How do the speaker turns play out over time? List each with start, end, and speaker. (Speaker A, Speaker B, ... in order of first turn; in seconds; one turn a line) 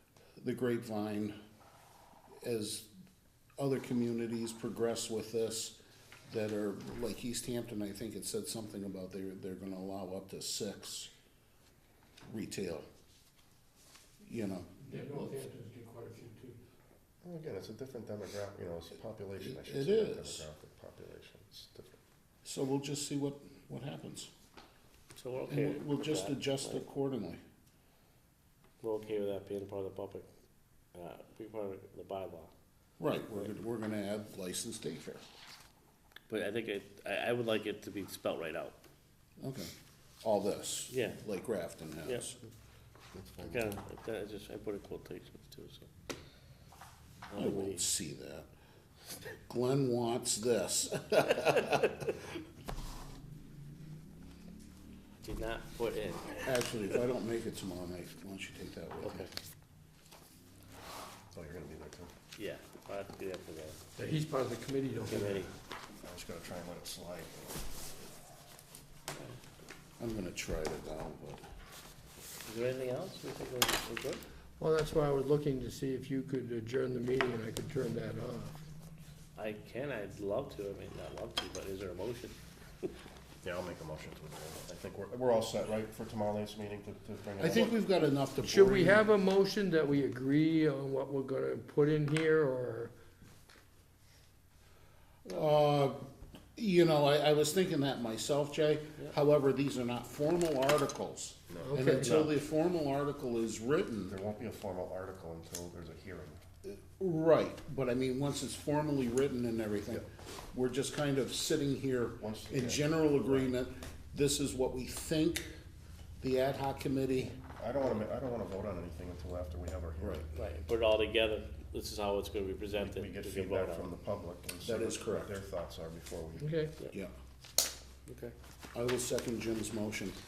Speaker A: 0.4-1.4
Speaker A: 2.4-2.9
Speaker A: 3.6-11.1
Speaker A: 12.3-12.8
Speaker A: 14.2-14.8
Speaker B: 14.8-16.6
Speaker C: 17.2-22.0
Speaker A: 19.4-20.4
Speaker A: 22.4-24.3
Speaker D: 25.2-26.8
Speaker A: 25.5-27.4
Speaker D: 28.8-30.3
Speaker D: 30.9-32.5
Speaker A: 33.0-35.3
Speaker D: 36.3-38.8
Speaker A: 39.4-39.7
Speaker A: 40.2-42.4
Speaker D: 40.9-41.2
Speaker D: 43.4-45.9
Speaker D: 47.3-47.8
Speaker A: 47.4-48.5
Speaker A: 49.5-52.0
Speaker D: 55.2-56.6
Speaker A: 56.5-59.3
Speaker D: 59.0-59.3
Speaker C: 61.3-62.1
Speaker D: 62.4-63.8
Speaker B: 64.0-65.5
Speaker D: 65.1-65.5
Speaker C: 66.0-67.5
Speaker A: 70.0-71.5
Speaker D: 72.5-74.2
Speaker B: 74.6-78.7
Speaker D: 79.4-82.9
Speaker C: 83.4-87.8
Speaker A: 87.4-89.1
Speaker B: 88.4-92.9
Speaker A: 95.2-96.0
Speaker A: 96.6-104.2
Speaker C: 101.5-101.8
Speaker B: 101.6-102.2
Speaker D: 102.0-102.4
Speaker C: 104.1-106.4
Speaker A: 106.6-115.5
Speaker C: 112.2-113.5
Speaker A: 116.2-117.4
Speaker C: 117.4-120.3
Speaker D: 120.3-123.9
Speaker C: 122.7-126.5
Speaker A: 124.6-125.4
Speaker B: 126.4-126.7
Speaker D: 128.1-128.3
Speaker A: 128.7-130.2